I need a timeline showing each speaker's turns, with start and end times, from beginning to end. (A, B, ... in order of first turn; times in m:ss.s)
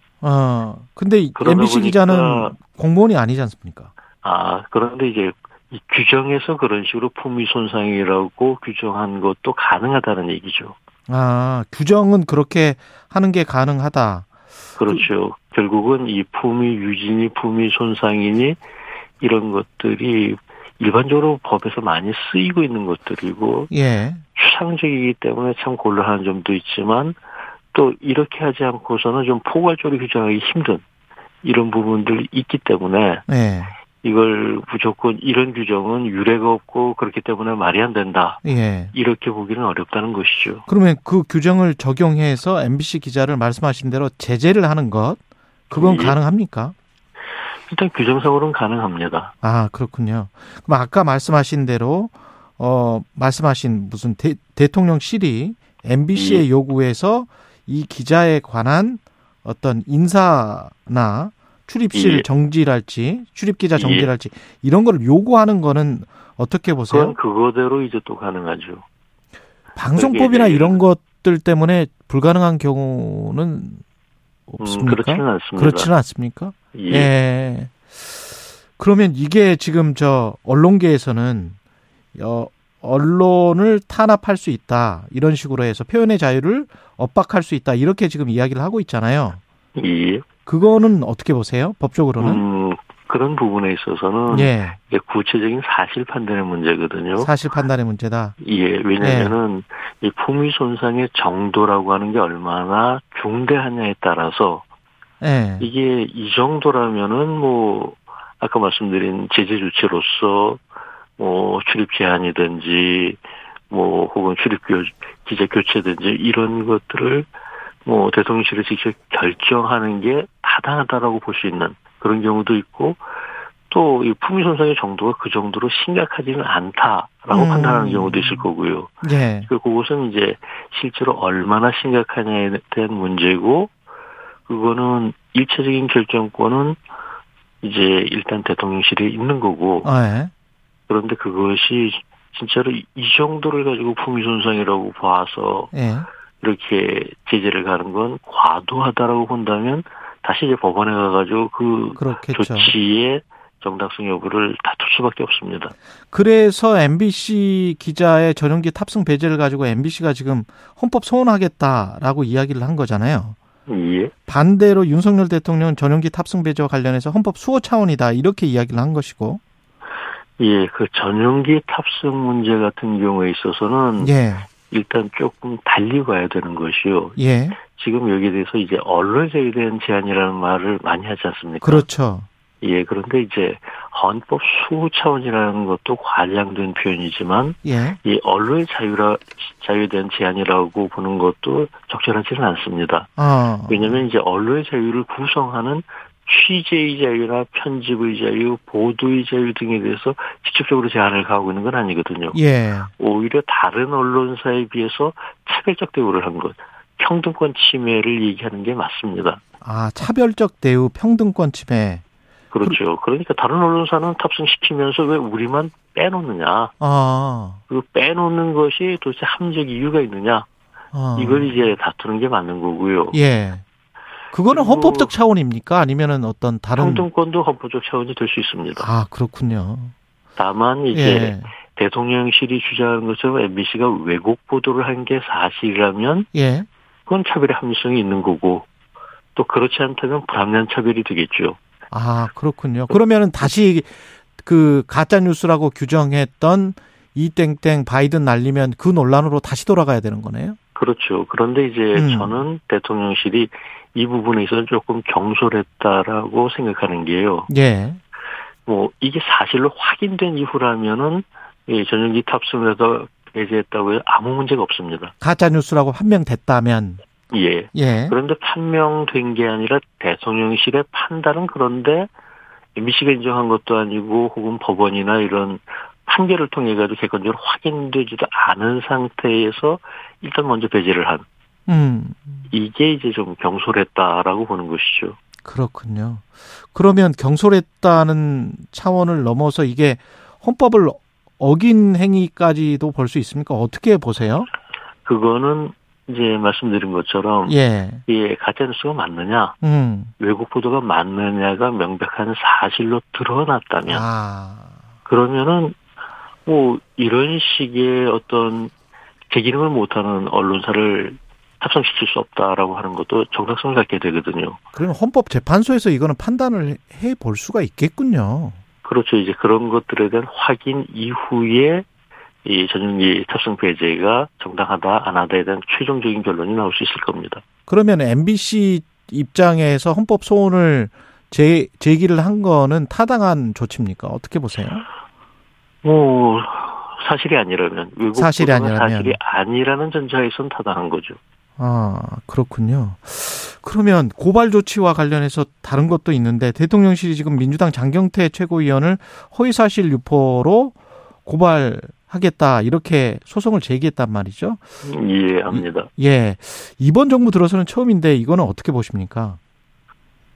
0:00.2-0:03.9 A
0:01.3-0:02.5 B
0:04.2-0:10.7 B
0:11.1-0:14.3 A
0:14.8-0:18.6 B
0:19.2-0:23.7 B
0:23.7-0:24.2 A
0:24.3-0:27.2 B
0:27.7-0:30.8 B
0:31.4-0:33.2 B
0:33.3-0:33.7 A
0:34.0-0:38.4 B
0:38.4-0:38.9 A
0:38.9-0:40.6 B
0:40.7-0:46.7 A
0:45.7-0:46.2 B
0:47.7-0:49.3 B
0:49.4-1:07.2 A
0:56.1-0:56.4 B
1:01.9-1:02.3 B
1:03.8-1:04.1 B
1:06.9-1:08.8 B
1:09.8-1:13.8 A
1:10.0-1:10.8 B
1:14.5-1:18.2 A
1:14.6-1:15.9 B
1:16.7-1:17.1 B
1:18.8-1:21.6 A
1:22.1-1:29.4 A
1:29.7-1:30.2 B
1:30.4-1:32.4 A
1:32.2-1:37.3 B
1:34.3-1:34.8 A
1:37.2-1:38.4 A
1:38.4-1:44.6 B
1:39.0-1:39.4 A
1:45.2-1:45.7 A
1:45.6-1:50.6 B
1:51.2-1:57.3 B
1:57.8-2:03.0 B
2:03.7-2:13.7 B
2:07.3-2:08.4 A
2:09.0-2:09.5 A
2:14.5-2:16.8 B
2:17.6-2:19.9 B
2:19.8-2:20.3 A
2:20.9-2:25.7 B
2:25.7-2:26.1 A
2:26.4-2:35.7 B
2:32.0-2:32.7 A
2:36.1-2:43.4 A
2:43.7-2:44.1 B
2:44.3-2:49.4 A
2:50.4-2:54.1 B
2:54.0-2:54.5 A
2:54.7-3:01.9 B
2:57.2-2:57.6 A
3:01.6-3:02.3 A
3:02.6-3:13.1 B
3:07.6-3:08.0 A
3:13.2-3:14.0 A
3:13.7-3:22.4 B
3:22.3-3:22.9 A
3:23.0-3:29.4 B
3:29.6-3:32.0 A
3:32.5-3:36.7 B
3:36.8-3:37.6 A
3:37.7-3:40.5 B
3:40.9-3:41.6 A
3:41.1-3:43.2 B
3:43.1-3:43.6 A
3:44.3-3:47.1 A
3:44.5-3:45.1 B
3:46.8-3:48.9 B
3:48.8-3:49.9 A
3:50.4-3:56.3 B
3:50.9-3:51.5 A
3:56.3-3:56.7 A
3:57.0-3:58.7 B
3:59.3-4:01.6 B
4:01.9-4:10.6 A
4:02.9-4:03.5 B
4:10.7-4:17.5 B
4:11.9-4:12.4 A
4:17.5-4:18.0 A
4:18.6-4:25.1 B
4:25.2-4:27.0 A
4:27.3-4:32.1 B
4:27.7-4:28.1 A
4:32.8-4:41.2 B
4:41.7-4:42.4 A
4:42.5-4:45.2 B
4:45.4-4:54.5 A
4:55.0-4:59.6 B
4:57.5-4:58.0 A
4:59.6-5:00.1 A
5:00.2-5:04.0 B
5:03.9-5:04.7 A
5:05.0-5:05.8 B
5:06.4-5:08.7 B
5:09.3-5:14.6 B
5:14.7-5:18.6 A
5:18.8-5:21.8 B
5:22.4-5:27.4 B
5:27.7-5:34.8 A
5:35.8-5:41.2 B
5:38.1-5:39.2 A
5:41.6-5:54.6 A
5:54.8-5:55.9 B
5:55.5-5:59.4 A